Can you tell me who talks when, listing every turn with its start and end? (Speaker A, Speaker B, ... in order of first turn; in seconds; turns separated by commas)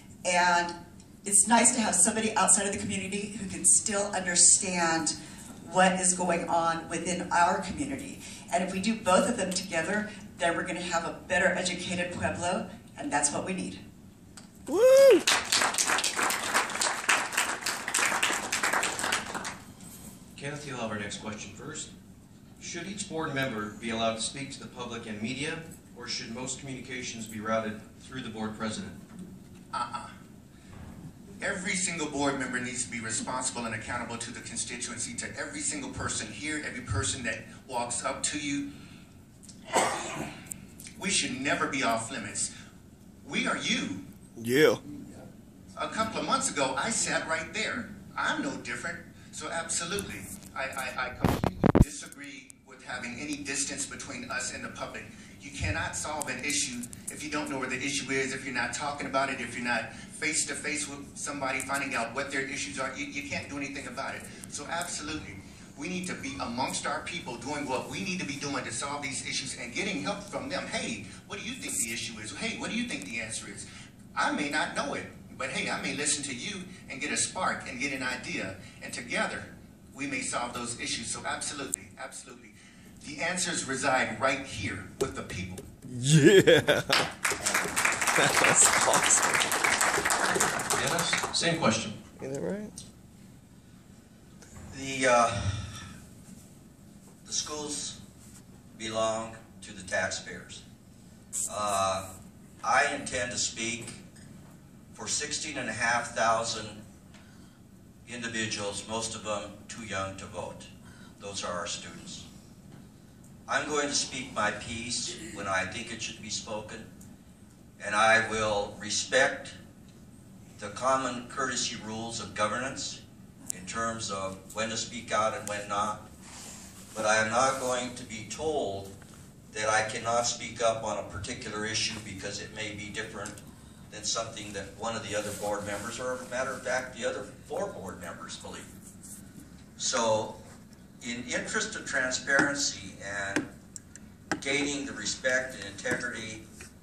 Speaker A: 0.2-13.8, Speaker B: 20.4-21.9, Speaker B: 22.6-29.0, Speaker C: 29.7-30.1, Speaker C: 31.4-38.7, Speaker C: 41.0-42.5, Speaker C: 43.2-44.0, Speaker D: 44.4-44.8, Speaker C: 45.8-85.6, Speaker D: 85.9-87.0, Speaker D: 88.1-89.4, Speaker B: 90.7-92.0, Speaker D: 92.2-92.7, Speaker E: 94.7-95.8, Speaker E: 97.2-98.0, Speaker E: 98.7-100.6, Speaker E: 101.5-102.1, Speaker E: 102.6-104.0, Speaker E: 104.9-106.8, Speaker E: 108.0-112.3, Speaker E: 113.5-116.9, Speaker E: 117.8-119.5, Speaker E: 120.6-126.1, Speaker E: 126.9-128.9, Speaker E: 129.5-138.7, Speaker E: 139.8-140.4, Speaker E: 141.0-143.5, Speaker E: 144.4-146.4